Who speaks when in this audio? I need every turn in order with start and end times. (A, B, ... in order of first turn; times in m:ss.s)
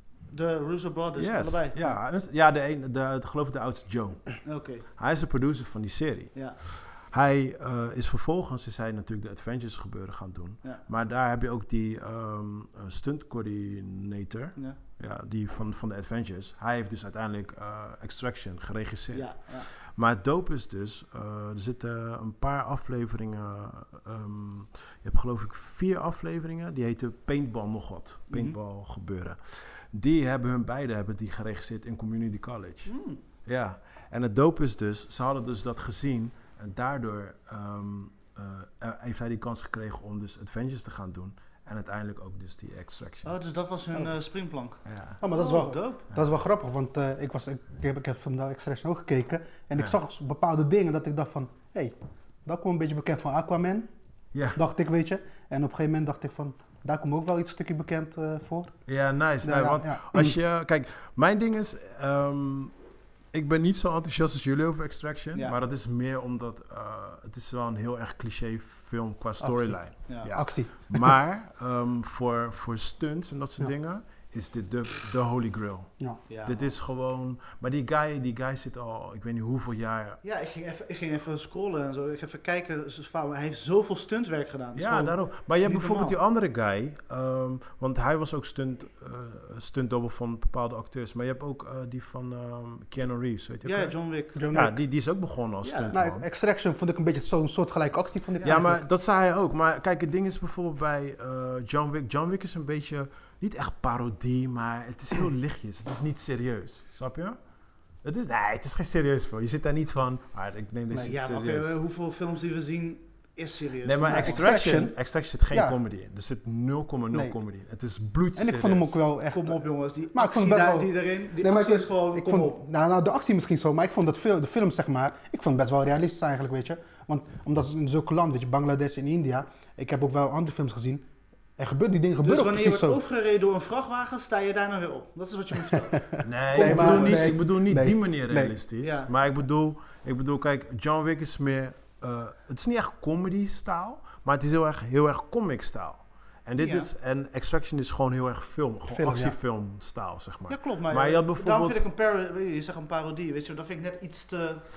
0:00.3-0:02.0 A
0:01.2-0:32.9 B
0:04.4-0:04.9 A
0:06.3-0:06.6 A
0:19.1-0:19.7 A
0:28.3-0:28.6 A
0:32.8-0:33.2 A
0:33.4-0:43.3 B
0:43.2-0:46.1 A
0:44.8-0:45.2 B
0:45.2-0:53.9 C
0:54.3-0:54.6 B
0:54.5-0:58.8 C
0:58.9-1:02.7 B
0:59.4-1:00.4 C
1:03.3-1:15.9 B
1:09.4-1:11.1 C
1:16.3-1:16.7 A
1:16.4-1:20.2 B
1:20.2-1:26.2 A
1:24.8-1:34.0 B
1:33.6-1:34.5 A
1:34.4-1:34.8 C
1:34.5-1:36.2 B
1:35.6-1:35.9 A
1:35.9-1:38.8 C
1:38.4-1:47.4 B
1:48.0-1:51.8 B
1:51.0-1:54.4 A
1:53.8-1:59.0 B
1:54.1-1:54.9 C
1:55.5-1:55.8 C
1:57.1-1:57.4 C
1:58.4-1:59.6 C
1:59.3-2:02.6 A
2:00.1-2:11.0 C
2:11.6-2:13.0 C
2:12.2-2:17.4 A
2:16.2-2:31.8 B
2:16.5-2:18.6 C
2:18.8-2:19.1 A
2:26.6-2:26.9 A
2:28.9-2:29.3 C
2:30.5-2:34.7 A